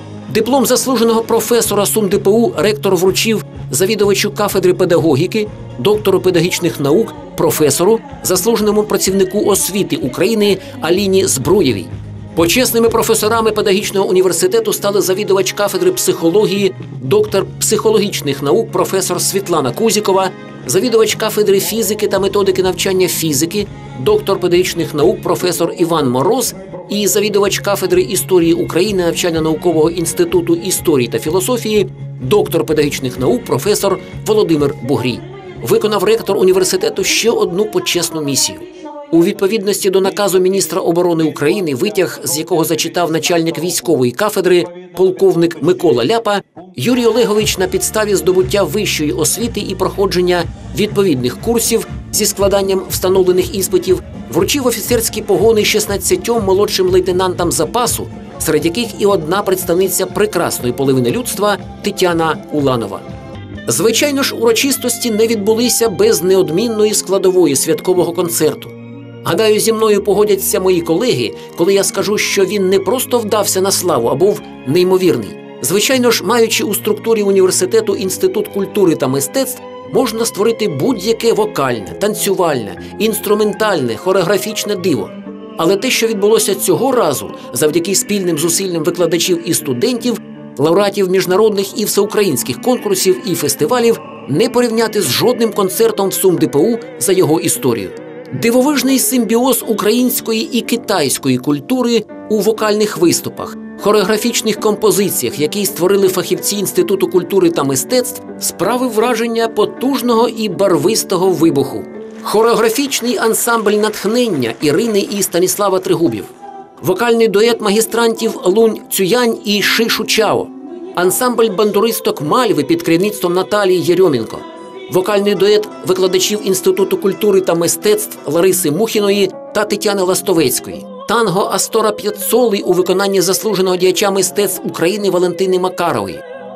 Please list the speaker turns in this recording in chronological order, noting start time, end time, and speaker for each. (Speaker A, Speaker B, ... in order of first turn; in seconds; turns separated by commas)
Speaker A: 0.3-63.1, Speaker A: 63.7-68.7, Speaker A: 69.2-116.3, Speaker A: 116.8-136.2